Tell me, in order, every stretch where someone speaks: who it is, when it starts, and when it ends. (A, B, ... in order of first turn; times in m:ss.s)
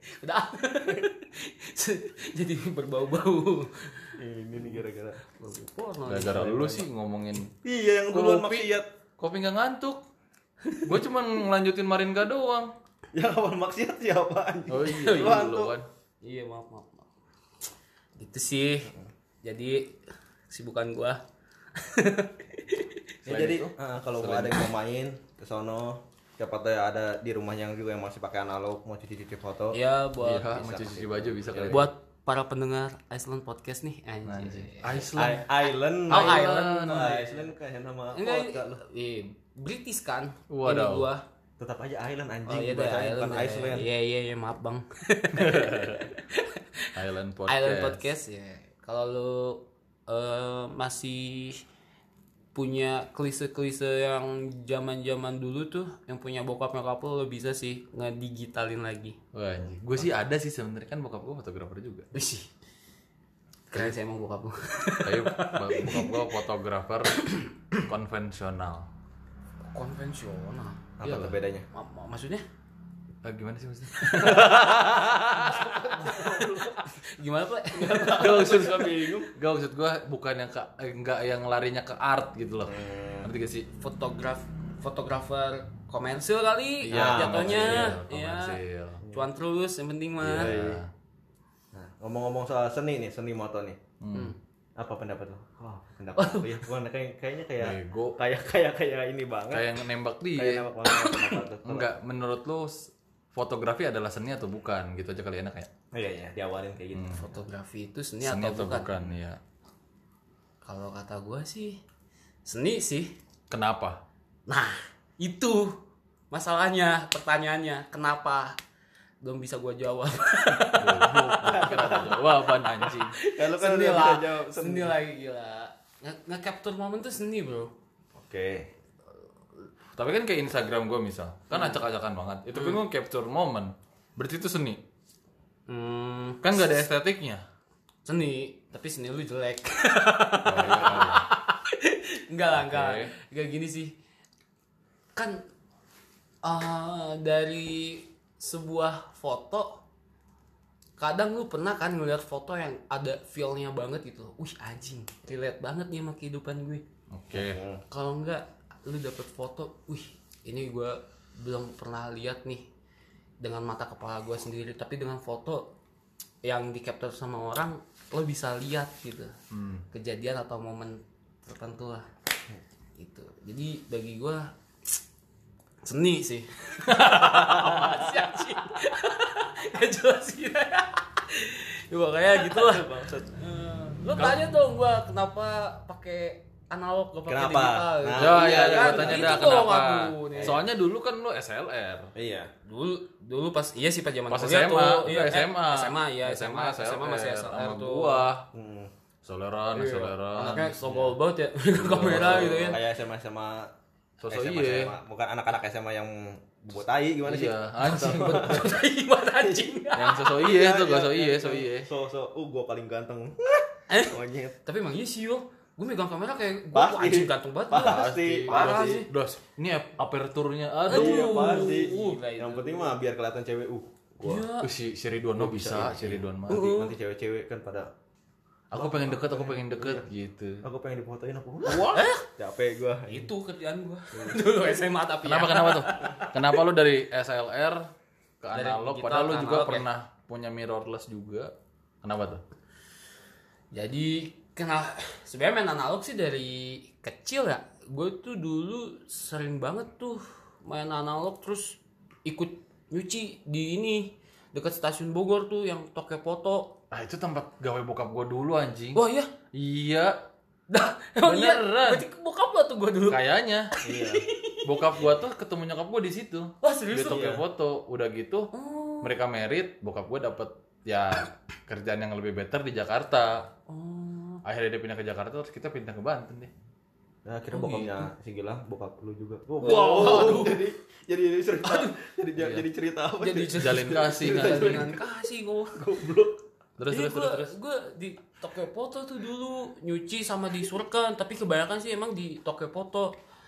0:00.2-0:04.2 A
0:04.2-0:05.2 B
0:05.2-0:06.9 A
0:06.1-0:07.5 C
0:07.6-0:08.9 B
0:08.1-0:10.0 C
0:10.8-0:12.7 C
0:13.1-0:15.8 B
0:14.7-0:15.9 C
0:14.9-0:15.5 A
0:16.2-0:17.0 A
0:18.2-0:18.9 A
0:19.4-0:21.2 A
0:21.8-0:23.0 A
0:23.2-0:29.8 B
0:23.2-0:24.6 C
0:29.7-0:30.6 A
0:30.2-0:31.9 C
0:30.5-0:31.9 B
0:31.6-0:35.1 A
0:34.2-0:35.5 C
0:35.1-0:38.8 B
0:36.1-0:37.2 C
0:36.1-0:37.5 A
0:38.1-0:41.2 A
0:40.5-0:41.1 C
0:41.6-0:43.9 B
0:42.5-0:46.9 A
0:45.4-0:46.1 C
0:47.0-0:48.0 C
0:47.5-0:51.6 A
0:52.5-0:59.2 A
0:59.3-1:02.1 C
1:02.1-1:02.5 A
1:03.7-1:06.3 A
1:05.0-1:08.9 C
1:07.2-1:07.8 A
1:09.7-1:12.4 A
1:11.0-1:11.6 B
1:11.0-1:11.3 C
1:13.2-1:16.4 C
1:14.2-1:14.8 B
1:15.3-1:18.7 A
1:16.0-1:16.8 B
1:17.8-1:19.3 B
1:18.0-1:23.7 C
1:22.6-1:23.3 B
1:23.8-1:30.5 A
1:26.8-1:29.0 C
1:26.9-1:28.0 B
1:30.2-1:30.9 C
1:30.3-1:30.8 B
1:31.7-1:33.8 B
1:34.0-1:34.3 C
1:34.8-1:39.7 B
1:36.2-1:36.6 A
1:37.6-1:38.2 C
1:39.5-1:40.7 C
1:40.3-1:41.9 B
1:40.9-1:41.3 A
1:41.6-1:45.7 C
1:45.9-1:47.4 B
1:46.9-1:47.2 C
1:47.1-1:48.9 A
1:48.2-1:49.4 C
1:50.6-1:51.8 A
1:52.5-1:53.1 A
1:53.5-1:54.0 C
1:54.5-1:55.8 A
1:56.3-1:58.6 A
1:59.2-2:02.1 A
2:00.7-2:03.2 C
2:01.4-2:02.2 B
2:02.8-2:07.7 A
2:03.3-2:05.0 B
2:08.2-2:08.7 B
2:10.0-2:14.8 C
2:11.5-2:11.8 A
2:12.5-2:12.8 A
2:15.7-2:16.7 A
2:16.4-2:17.4 C
2:18.0-2:24.0 A
2:20.4-2:21.3 C
2:22.5-2:23.1 C
2:25.1-2:25.5 A
2:26.4-2:29.8 A
2:31.0-2:36.8 A
2:37.1-2:37.6 C
2:37.3-2:37.8 B
2:37.9-2:42.7 A
2:43.4-2:45.8 A
2:46.4-2:49.4 A
2:49.5-2:49.8 C
2:49.9-2:52.1 A
2:53.0-2:54.5 A
2:55.8-3:10.6 A
2:56.9-2:58.1 C
3:02.3-3:03.3 B
3:07.3-3:09.7 B
3:08.2-3:12.1 C
3:10.3-3:10.6 B
3:12.1-3:12.5 B
3:12.6-3:18.3 A
3:14.3-3:18.5 C
3:18.5-3:18.9 B
3:19.2-3:20.8 C
3:19.7-3:22.8 A
3:20.8-3:21.1 B
3:21.7-3:22.8 C
3:21.9-3:23.7 B
3:24.2-3:25.0 C
3:24.2-3:28.8 B
3:27.2-3:28.7 C
3:27.9-3:30.3 A
3:29.4-3:34.6 B
3:29.9-3:31.9 C
3:33.9-3:39.1 A
3:36.7-3:39.1 B
3:37.8-3:41.8 C
3:40.9-3:43.0 A
3:40.9-3:44.5 B
3:44.2-3:44.7 A
3:44.6-3:46.7 C
3:45.4-3:47.9 B
3:46.5-3:46.9 A
3:48.7-3:50.6 C
3:48.7-3:50.1 B
3:50.6-3:53.3 B
3:51.6-3:52.3 A
3:53.1-3:56.6 A
3:54.1-3:54.4 B
3:55.2-3:57.9 C
3:58.4-4:01.5 C
3:58.5-3:59.9 A
4:02.0-4:02.4 C
4:03.7-4:16.8 A
4:16.9-4:19.0 C
4:18.9-4:19.3 A
4:19.5-4:20.2 C
4:20.7-4:23.2 A
4:21.2-4:22.0 C
4:23.1-4:23.8 C
4:23.8-4:24.9 A
4:23.8-4:24.2 B
4:24.6-4:33.5 C
4:26.6-4:27.4 A
4:27.0-4:27.4 B
4:28.5-4:29.1 A
4:33.7-4:34.4 A
4:34.4-4:36.5 C
4:37.2-4:45.1 B
4:37.5-4:38.1 A
4:39.6-4:40.6 A
4:39.8-4:40.5 C
4:41.6-4:42.0 A
4:42.4-4:42.6 C
4:43.2-4:45.9 A
4:43.6-4:44.9 C
4:45.8-4:46.4 B
4:46.8-4:47.5 C
4:46.9-4:53.1 A